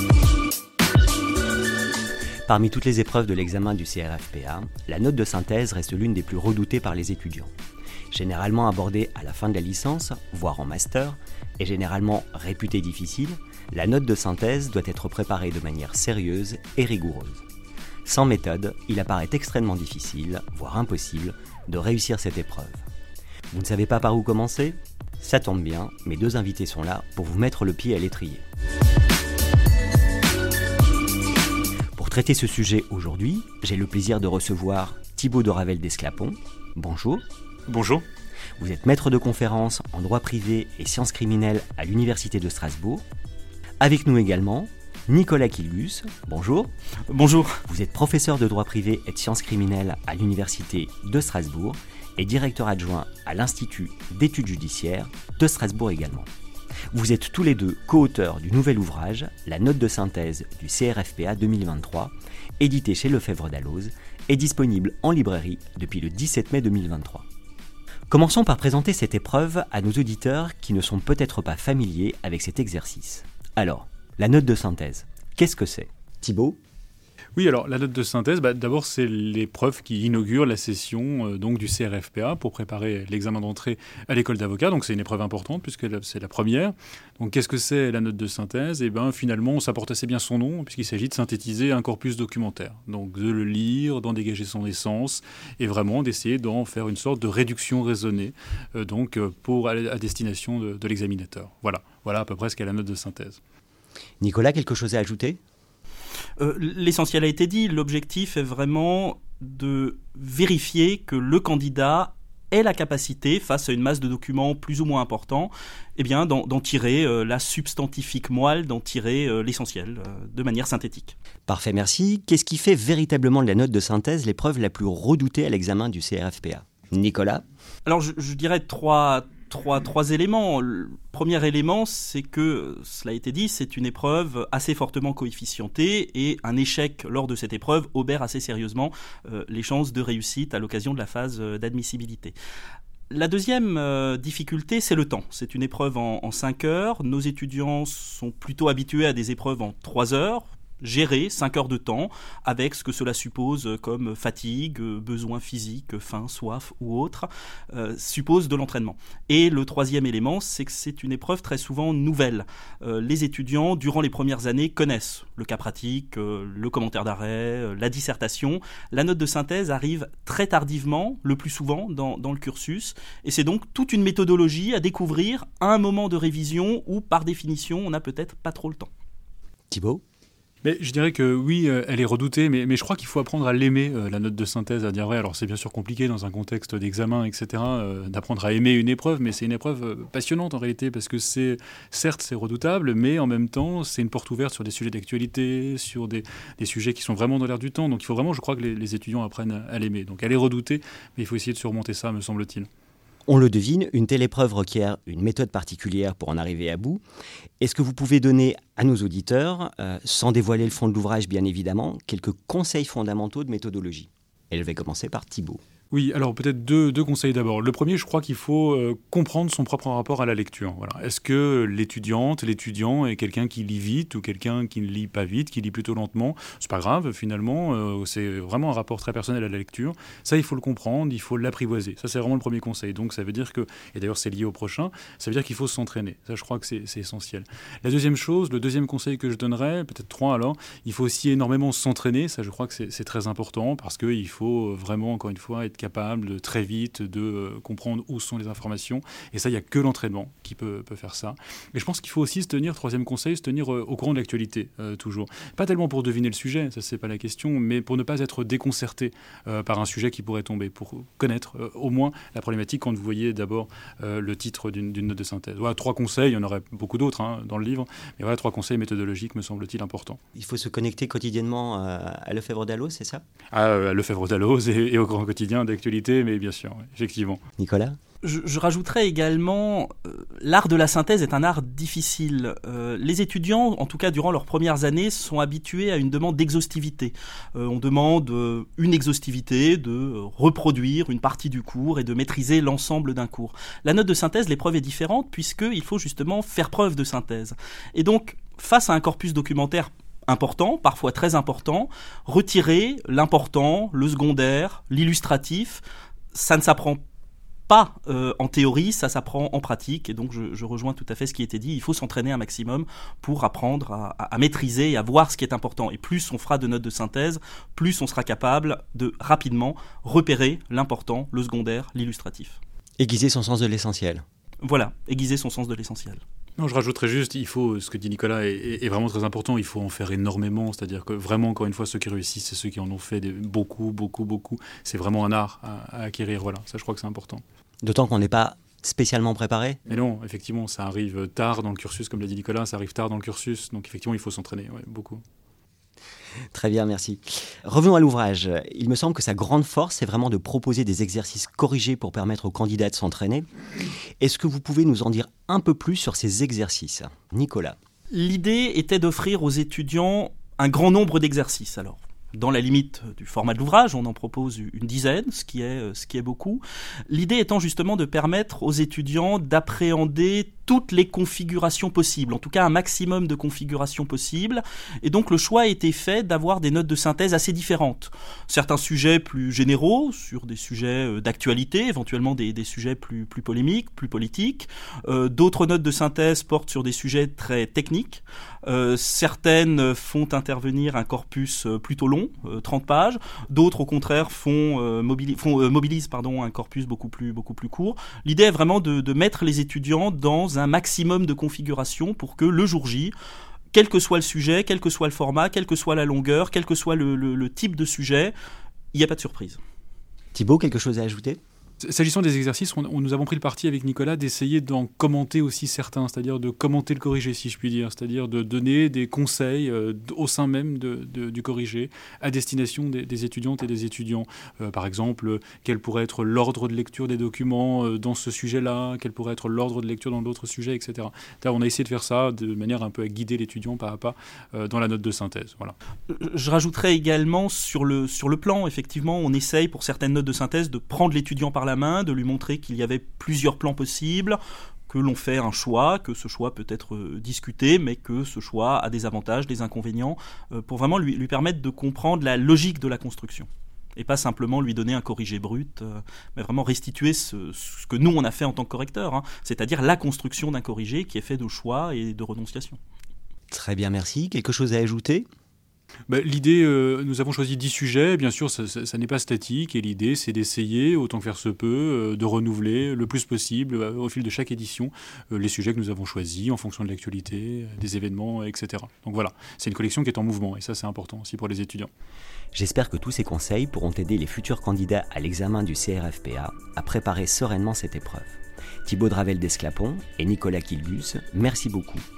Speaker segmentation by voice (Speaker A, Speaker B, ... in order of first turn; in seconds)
Speaker A: 2.5-7.5, 8.1-17.4, 18.0-22.8, 23.5-28.4, 31.9-37.2, 38.6-43.0, 43.8-46.7, 47.7-56.3, 56.9-67.3, 68.1-76.6, 104.2-105.4, 121.5-127.4, 179.7-180.0, 203.3-207.0, 207.6-215.6, 270.4-273.2, 277.6-278.0, 323.0-324.2, 337.8-339.8, 346.5-353.5, 354.2-357.8, 410.3-411.4, 463.5-465.2, 482.5-492.0
Speaker B: 37.7-38.0, 77.3-103.4, 180.6-202.7, 215.9-270.2, 273.5-277.4, 326.6-337.4, 339.9-345.2, 411.8-435.7, 466.1-481.9
Speaker C: 47.1-47.6, 106.4-121.1, 127.8-142.3, 143.1-178.9, 278.2-305.8, 306.3-307.0, 307.7-322.6, 324.6-326.2, 358.1-403.1, 403.7-408.3, 408.9-409.6, 436.1-462.8